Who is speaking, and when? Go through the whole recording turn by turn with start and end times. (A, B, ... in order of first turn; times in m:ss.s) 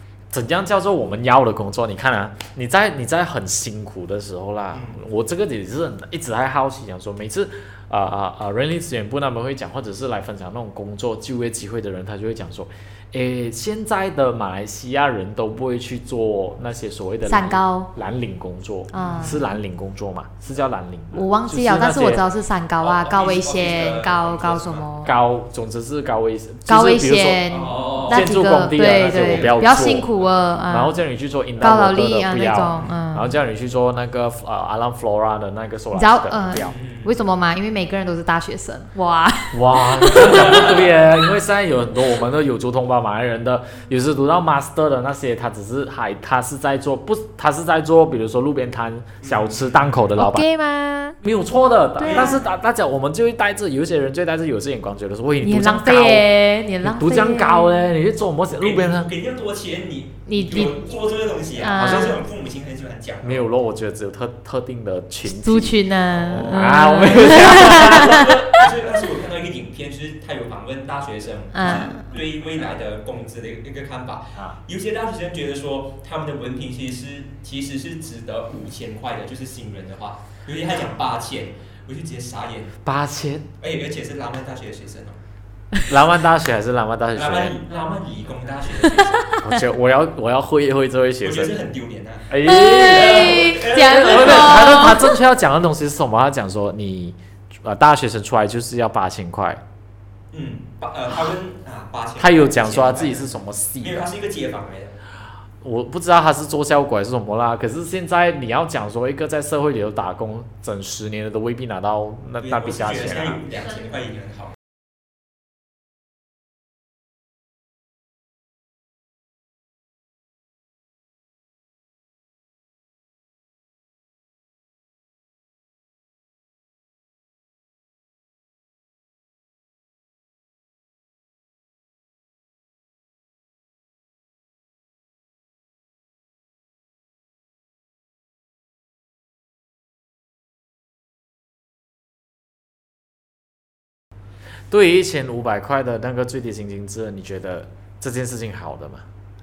0:00.3-0:22.2 A
0:04.7-0:05.0 B
0:17.3-0:17.9 C
0:18.9-0:19.4 C
0:18.9-0:19.4 B
0:21.1-0:25.1 C
0:22.8-0:24.9 B
0:25.0-0:27.4 A
0:26.7-0:31.0 C
0:27.5-0:28.4 B
0:28.1-0:30.1 A
0:28.9-0:30.3 B
0:30.7-0:36.8 A
0:31.6-0:33.4 C
0:32.7-0:33.0 B
0:35.9-0:40.8 C
0:36.6-0:37.2 B
0:39.5-0:50.4 A
0:40.1-0:40.8 B
0:49.2-0:50.2 B
0:50.2-0:51.2 C
0:51.2-0:56.2 A
0:52.0-0:52.4 C
0:52.0-0:52.4 B
0:55.4-0:57.9 C
0:56.8-0:59.1 A
0:58.5-1:03.5 B
1:00.3-1:00.8 C
1:01.6-1:02.2 C
1:03.2-1:08.4 A
1:05.2-1:08.7 C
1:06.1-1:22.8 B
1:11.5-1:12.1 C
1:22.8-1:23.5 A
1:23.6-1:25.2 B
1:25.9-1:27.6 A
1:27.2-1:29.4 B
1:29.4-1:31.6 A
1:31.2-1:34.8 B
1:32.3-1:39.6 A
1:32.4-1:35.2 C
1:40.3-1:45.0 B
1:42.2-1:44.1 A
1:45.6-1:53.4 A
1:52.4-1:54.6 B
2:24.7-2:29.0 A